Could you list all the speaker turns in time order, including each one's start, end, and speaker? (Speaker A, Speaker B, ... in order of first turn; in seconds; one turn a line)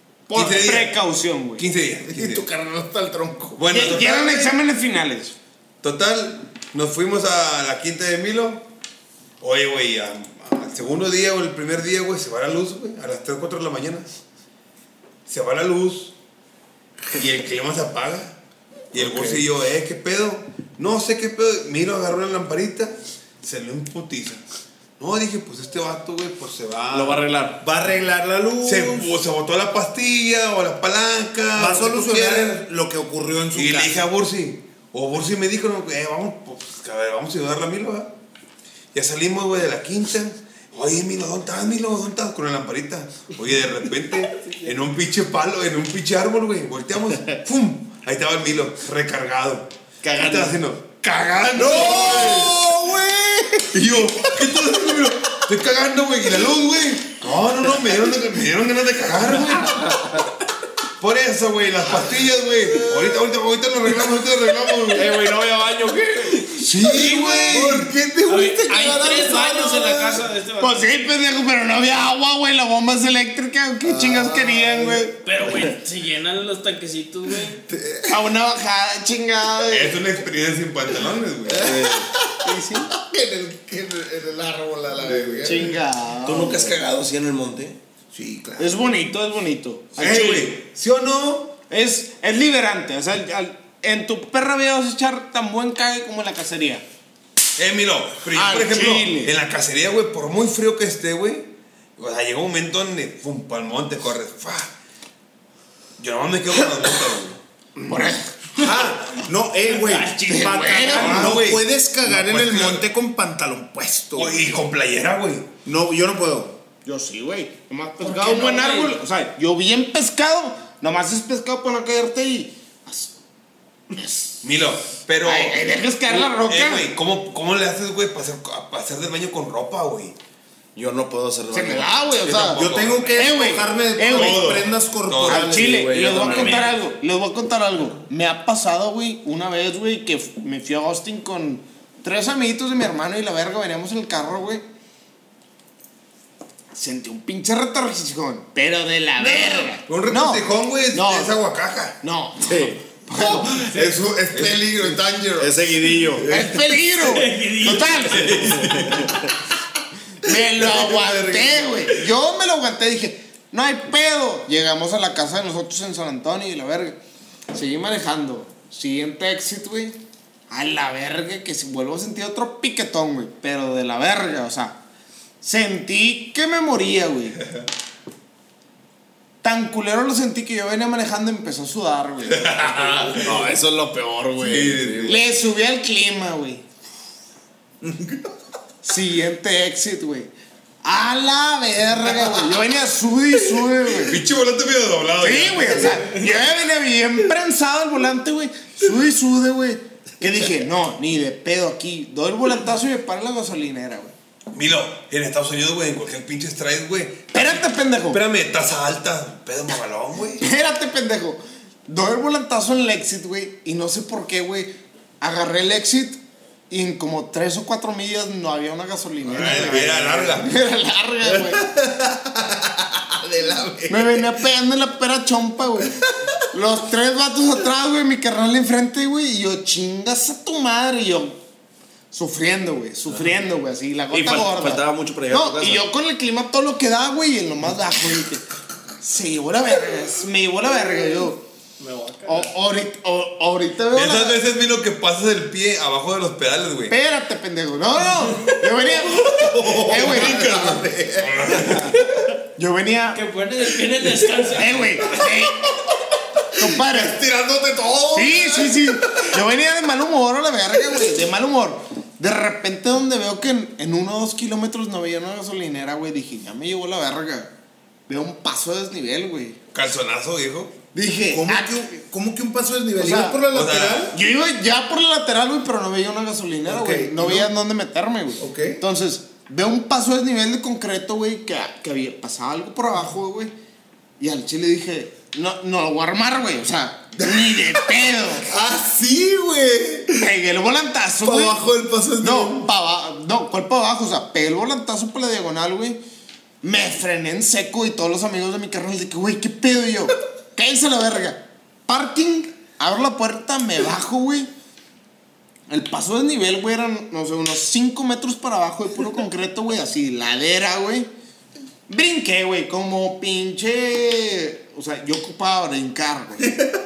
Speaker A: 0.3-5.3
Speaker B: 0.3-1.0
Speaker B: 1.6-2.5
Speaker B: 3.5-4.6
Speaker B: 5.8-8.7
Speaker B: 9.4-14.1
Speaker B: 15.2-16.1
Speaker B: 17.1-18.4
Speaker B: 18.9-24.4
Speaker C: 19.0-19.4
Speaker B: 25.0-27.2
Speaker C: 26.9-27.6
Speaker D: 27.6-29.1
Speaker B: 28.6-32.6
Speaker D: 31.5-34.0
Speaker B: 33.5-38.1
Speaker B: 38.9-52.6
Speaker C: 50.0-50.6
Speaker D: 51.6-53.7
Speaker C: 51.6-52.1
Speaker B: 53.7-60.0
Speaker B: 61.0-65.2
Speaker C: 64.9-66.6
Speaker D: 66.6-70.3
Speaker B: 66.8-67.9
Speaker E: 66.8-67.7
Speaker E: 68.3-71.0
Speaker A: 70.6-75.2
Speaker D: 73.9-75.0
Speaker E: 75.2-77.6
Speaker D: 77.7-78.2
Speaker A: 78.1-80.1
Speaker B: 79.7-81.9
Speaker D: 81.5-82.4
Speaker C: 81.6-82.1
Speaker A: 82.4-82.9
Speaker D: 82.9-85.8
Speaker C: 85.1-85.5
Speaker A: 85.4-86.7
Speaker C: 86.2-87.8
Speaker D: 88.1-88.8
Speaker A: 88.6-90.5
Speaker B: 90.0-91.5
Speaker A: 91.7-96.8
Speaker B: 97.5-104.7
Speaker A: 98.3-99.3
Speaker B: 106.0-107.4
Speaker A: 107.8-108.7
Speaker D: 108.6-114.6
Speaker E: 109.7-111.3
Speaker A: 110.2-111.4
Speaker B: 111.0-112.8
Speaker B: 114.1-115.5
Speaker D: 115.6-116.6
Speaker A: 116.8-123.2
Speaker E: 118.0-119.0
Speaker A: 123.9-124.5
Speaker B: 124.4-130.1
Speaker A: 125.2-126.9
Speaker C: 130.7-131.9
Speaker A: 131.5-134.5
Speaker B: 132.2-133.2
Speaker D: 132.4-135.9
Speaker B: 134.1-135.5
Speaker A: 135.2-144.6
Speaker C: 135.4-136.8
Speaker E: 136.1-136.7
Speaker A: 146.7-151.3
Speaker B: 149.3-152.0
Speaker A: 152.0-153.7
Speaker C: 152.5-152.8
Speaker D: 153.1-155.8
Speaker B: 154.3-154.8
Speaker C: 155.4-156.3
Speaker B: 156.2-156.6
Speaker A: 156.3-158.5
Speaker E: 156.9-158.7
Speaker C: 158.1-159.3
Speaker B: 158.6-159.1
Speaker A: 160.2-167.0
Speaker B: 160.6-161.5
Speaker A: 167.5-174.8
Speaker A: 175.4-177.4
Speaker A: 179.4-183.3
Speaker B: 182.3-183.5
Speaker C: 183.2-185.2
Speaker B: 184.4-185.2
Speaker A: 185.0-186.6
Speaker D: 187.8-188.1
Speaker A: 188.8-190.3
Speaker A: 190.8-194.2
Speaker B: 193.9-196.2
Speaker A: 195.2-204.1
Speaker B: 204.5-210.4
Speaker A: 207.3-208.2
Speaker A: 210.4-221.6
Speaker B: 219.3-220.5
Speaker D: 219.3-220.4
Speaker D: 221.2-224.3
Speaker A: 223.9-226.0
Speaker D: 226.1-226.3
Speaker A: 226.5-231.4
Speaker A: 232.1-238.4
Speaker C: 234.1-235.8
Speaker A: 239.0-241.4
Speaker E: 241.8-242.5
Speaker A: 242.2-244.4
Speaker B: 243.9-246.9
Speaker A: 246.9-250.4
Speaker D: 249.1-251.9
Speaker B: 249.3-252.3
Speaker A: 252.6-253.2
Speaker E: 253.1-255.1
Speaker A: 254.5-255.7
Speaker A: 256.5-257.2
Speaker D: 256.6-259.3
Speaker A: 258.1-267.5
Speaker A: 268.1-269.6
Speaker B: 269.7-270.8
Speaker A: 270.9-271.8
Speaker D: 271.3-274.2
Speaker A: 273.0-273.4
Speaker B: 273.5-274.1
Speaker A: 274.1-283.5
Speaker D: 276.7-277.5
Speaker D: 278.4-278.8
Speaker A: 284.2-288.5
Speaker D: 287.2-287.6
Speaker D: 288.4-290.3
Speaker A: 290.1-291.6
Speaker D: 291.2-292.7
Speaker A: 292.2-296.0
Speaker A: 296.6-304.5
Speaker A: 305.7-311.1
Speaker A: 311.9-316.6